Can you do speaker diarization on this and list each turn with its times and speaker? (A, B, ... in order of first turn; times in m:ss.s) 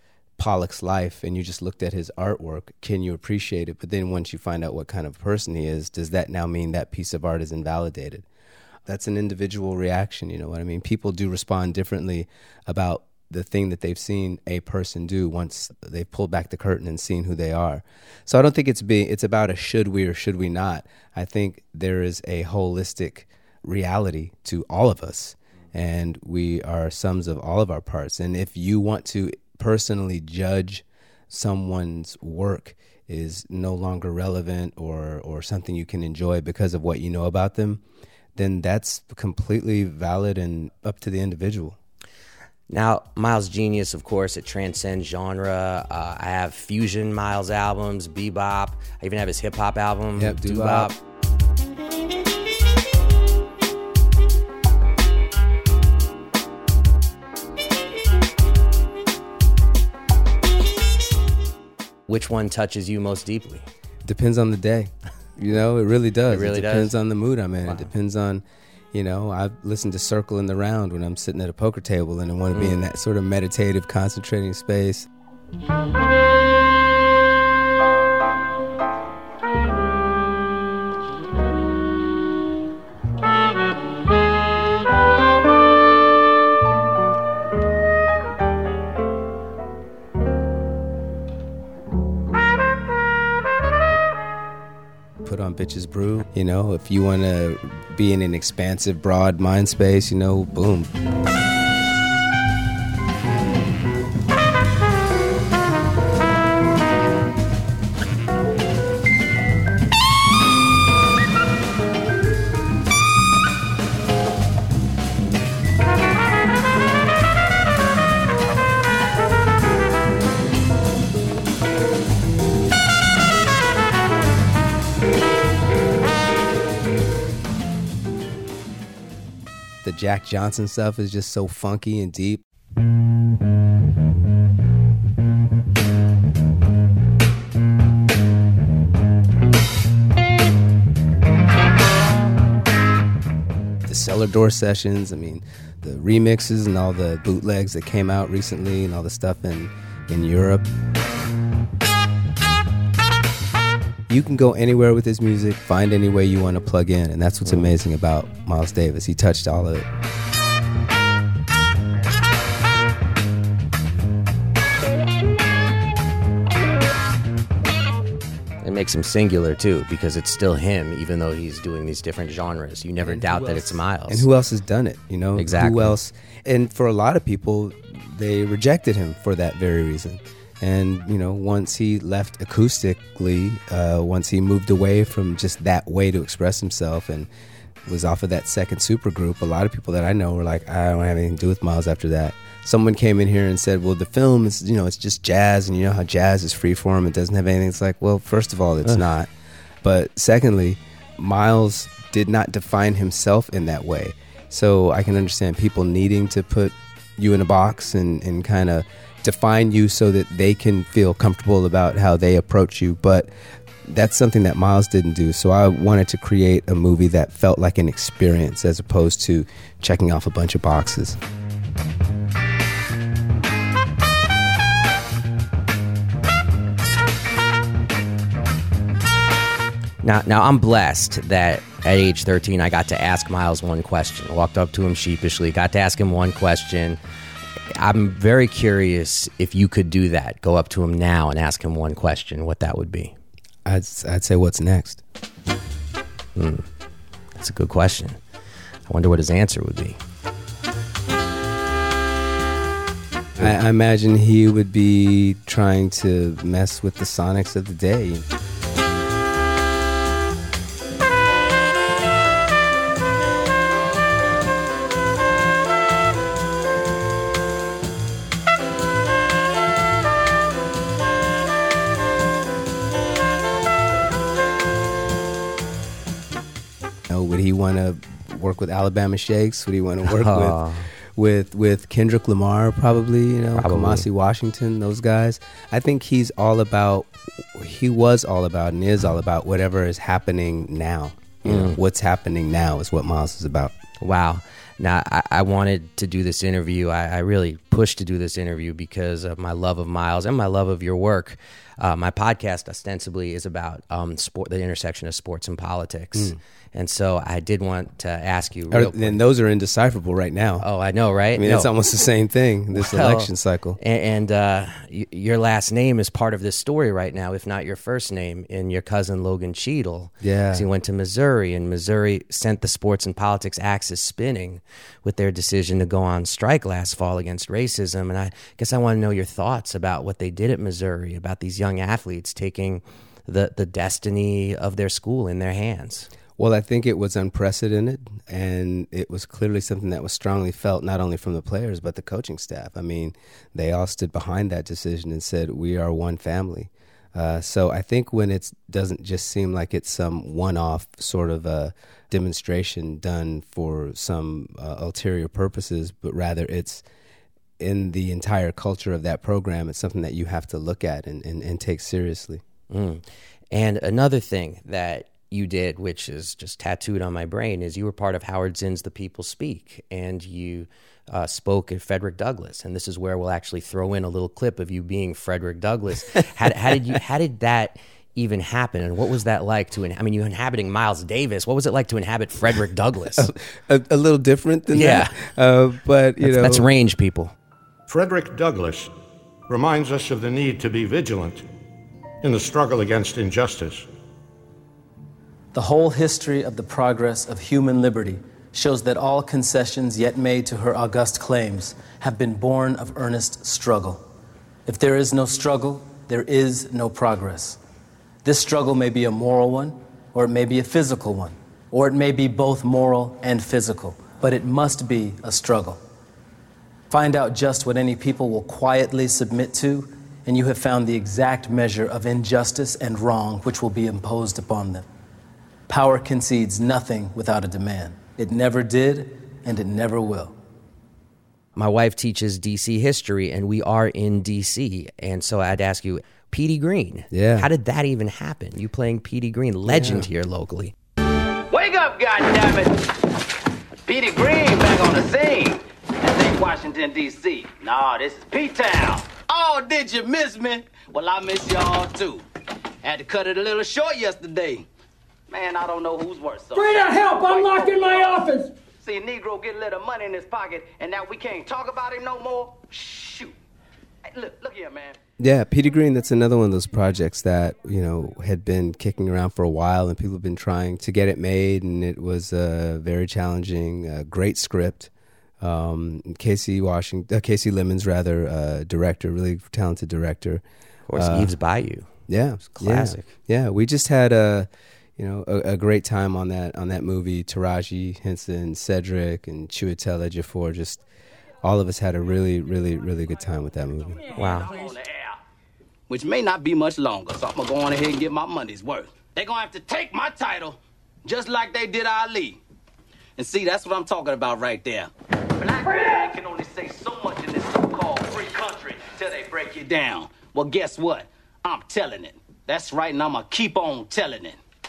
0:00.4-0:08.2 A
0:08.8-0:37.8 A
0:38.3-0:41.8 A
0:42.7-0:51.0 B
0:50.2-0:50.9 A
1:02.1-1:03.7 B
1:04.0-1:15.1 A
1:06.3-1:06.9 B
1:07.6-1:07.9 B
1:12.5-1:12.8 B
1:35.2-1:40.9 A
2:09.8-2:12.4 A
2:23.9-2:30.7 A
2:34.1-2:39.9 A
2:37.4-2:37.7 B
2:48.6-2:54.2 B
2:53.0-3:07.3 A
2:55.4-2:56.0 B
3:07.8-3:19.3 A
3:19.8-3:33.3 A
3:33.8-3:41.2 A
3:50.0-3:57.0 B
3:57.7-4:03.1 B
4:03.6-4:05.0 A
4:06.4-4:06.7 B
4:07.4-4:08.2 B
4:08.9-4:10.0 B
4:13.4-4:18.2 A
4:37.1-4:53.7 A
4:40.0-4:40.9 B
4:43.6-4:44.0 B
4:51.4-4:51.8 B
4:54.0-5:09.2 B
5:08.7-5:10.7 A
5:10.6-5:11.7 B
5:11.3-5:13.8 A
5:12.7-5:36.1 B
5:20.2-5:20.6 A
5:36.4-5:56.8 A
5:57.6-6:02.4 A
6:02.7-6:23.3 B
6:23.2-6:26.7 A
6:24.7-6:25.2 B
6:26.2-6:27.3 B
6:27.9-6:28.9 C
6:29.5-6:31.5 C
6:32.2-6:33.9 C
6:35.5-6:44.0 D
6:44.7-6:47.6 D
6:44.8-6:45.2 A
6:48.2-6:55.8 D
6:48.3-6:49.1 A
6:54.2-6:55.5 A
6:56.9-7:04.8 D
6:56.9-6:57.6 A
7:01.2-7:04.7 A
7:05.7-7:10.3 D
7:05.7-7:07.0 A
7:08.2-7:08.8 A
7:09.5-7:10.0 A
7:11.6-7:20.7 B
7:17.1-7:17.5 A
7:19.6-7:20.1 A
7:21.5-7:22.8 E
7:23.8-7:32.2 E
7:32.8-7:34.7 E
7:35.3-7:38.2 E
7:36.6-7:38.5 F
7:38.8-7:43.4 E
7:44.0-7:45.0 E
7:45.2-7:54.9 A
7:55.4-8:01.3 A
8:00.9-8:01.9 B
8:02.1-8:10.8 A
8:02.4-8:03.1 B
8:11.4-8:14.1 A
8:14.2-8:14.5 B
8:14.2-8:15.2 E
8:15.9-8:22.4 E
8:23.2-8:34.4 E